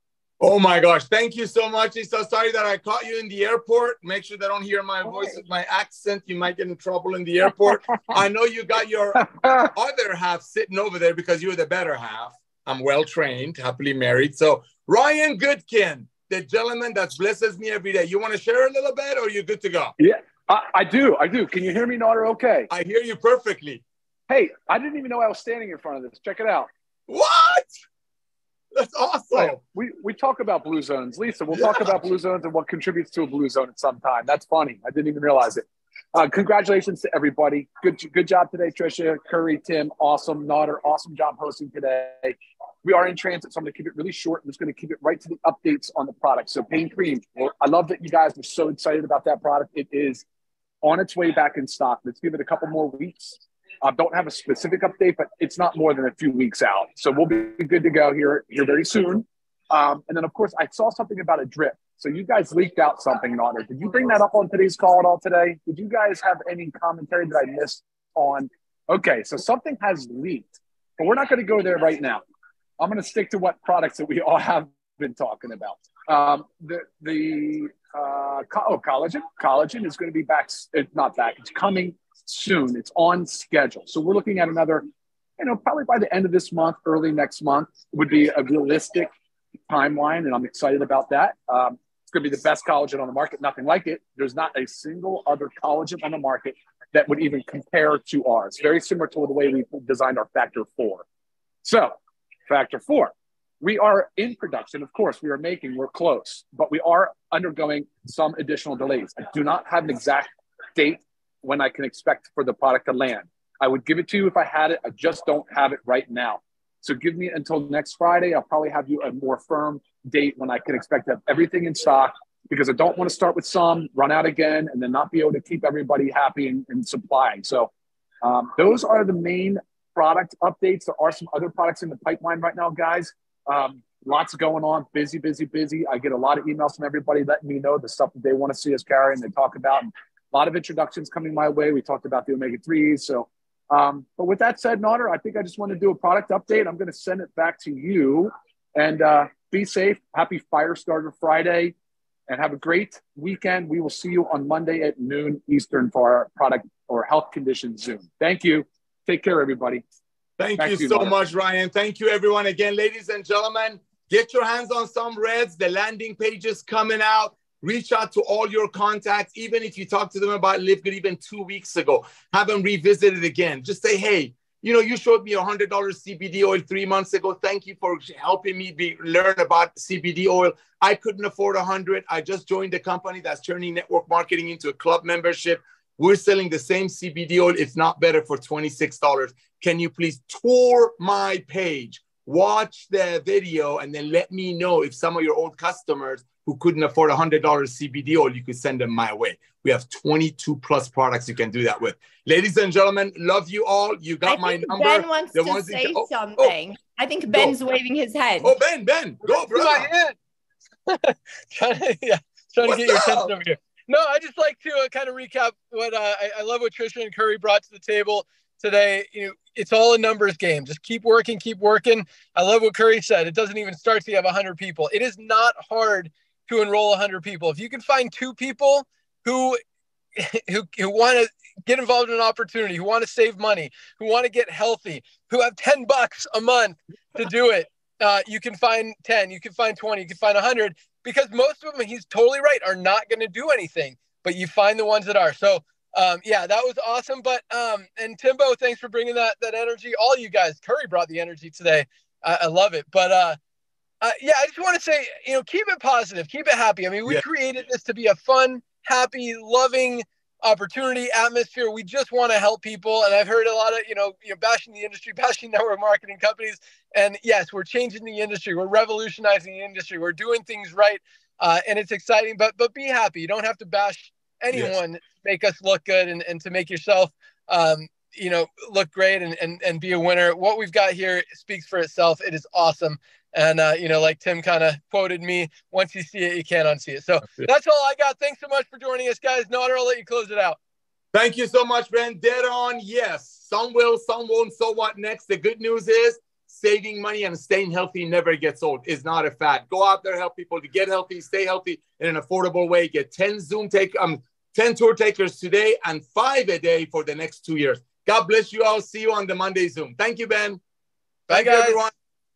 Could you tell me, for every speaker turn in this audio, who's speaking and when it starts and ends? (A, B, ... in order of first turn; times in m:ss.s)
0:00.4-0:19.9 A
0:09.2-0:09.7 B
0:20.0-0:22.7 B
0:22.7-0:23.8 A
0:24.3-0:26.7 B
0:27.1-0:27.7 A
0:28.7-0:29.6 A
0:29.3-0:50.2 B
0:31.5-0:31.8 A
0:50.8-1:12.2 B
1:12.8-1:24.9 B
1:25.4-1:29.1 B
1:29.7-1:41.0 B
1:41.6-1:41.9 B
1:42.5-2:07.7 B
2:08.2-2:31.7 B
2:32.3-2:39.8 B
2:40.4-3:26.6 A
2:40.6-2:41.2 B
3:24.2-3:28.5 C
3:28.4-3:29.9 A
3:29.2-3:30.2 D
3:30.9-3:49.6 D
3:32.6-3:33.3 A
3:50.2-4:13.4 D
4:14.0-4:50.6 D
4:51.1-5:10.6 A
5:11.3-5:11.8 D
5:11.3-5:11.9 A